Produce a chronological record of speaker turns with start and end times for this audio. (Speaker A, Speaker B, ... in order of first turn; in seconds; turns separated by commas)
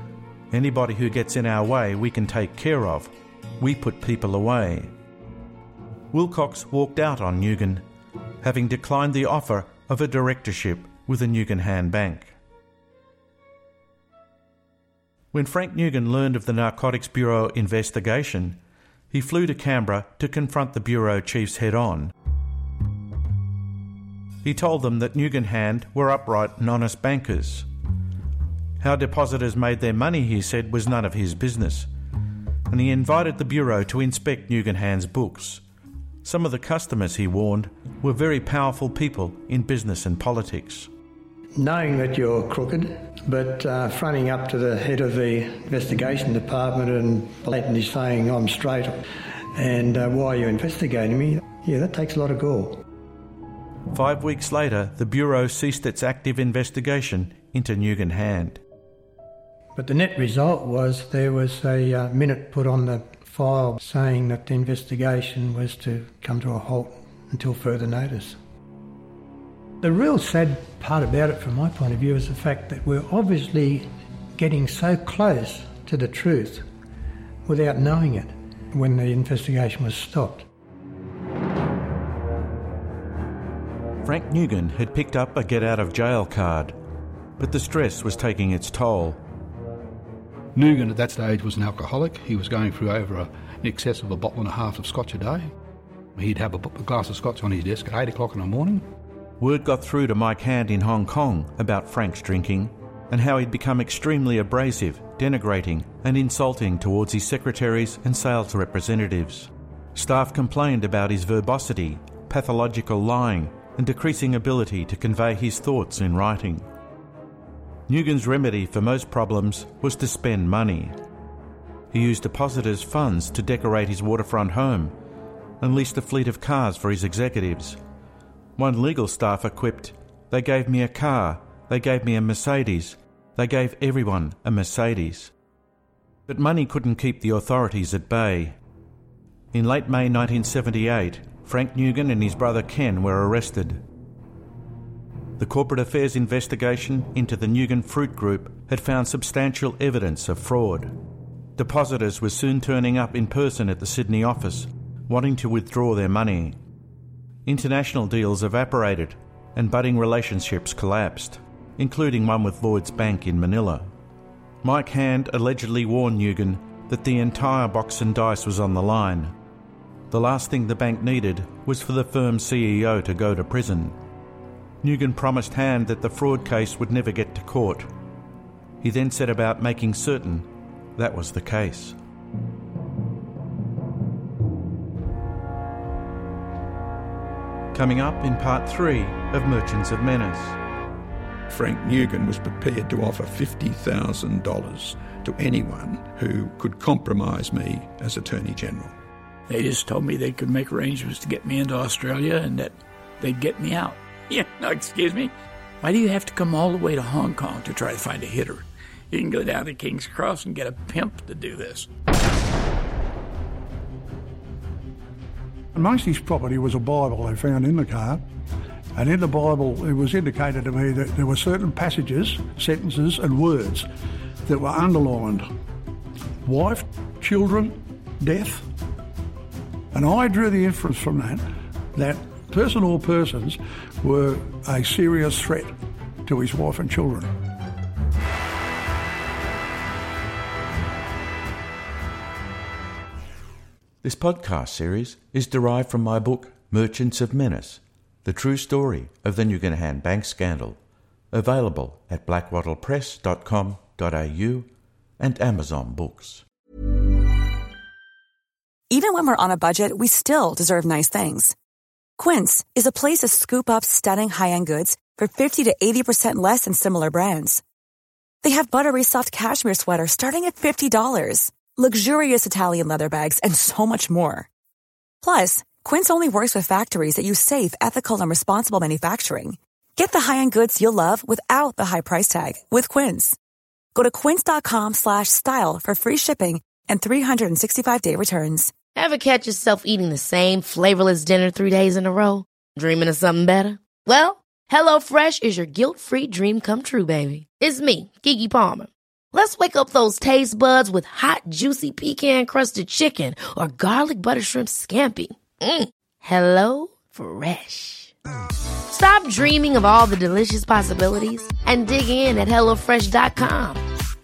Speaker A: 0.5-4.9, Speaker A: 6.1-7.8, Speaker A: 8.4-12.3, Speaker A: 15.3-18.6, Speaker A: 19.1-22.1, Speaker A: 24.4-27.7, Speaker A: 28.8-31.9, Speaker A: 32.7-35.6, Speaker A: 36.2-40.9, Speaker B: 41.6-49.0, Speaker B: 49.5-52.8, Speaker A: 53.9-58.6, Speaker B: 59.8-68.4, Speaker B: 69.8-76.7, Speaker B: 77.5-80.5, Speaker A: 84.0-86.8, Speaker A: 87.4-89.2, Speaker C: 90.5-95.5, Speaker C: 96.2-98.8, Speaker A: 99.4-116.7, Speaker A: 117.9-121.0, Speaker A: 121.9-124.9, Speaker A: 125.6-127.8, Speaker A: 128.6-135.3, Speaker A: 136.3-138.6, Speaker A: 139.5-143.8, Speaker A: 145.4-150.9, Speaker A: 151.6-156.6, Speaker A: 157.5-163.9, Speaker A: 164.6-169.3, Speaker A: 170.1-174.0, Speaker A: 174.8-177.9, Speaker A: 178.8-182.0, Speaker A: 187.7-190.6, Speaker D: 191.5-198.9, Speaker E: 199.5-211.9, Speaker F: 215.8-218.2, Speaker F: 218.9-223.9, Speaker F: 224.4-225.5, Speaker F: 226.4-228.7, Speaker F: 229.9-235.7, Speaker F: 236.2-237.3, Speaker A: 244.0-250.8, Speaker A: 251.3-256.4, Speaker G: 258.9-261.5, Speaker G: 262.2-267.6, Speaker G: 268.4-274.5, Speaker G: 275.2-283.4, Speaker G: 283.9-288.7, Speaker H: 289.0-308.1, Speaker H: 308.9-313.8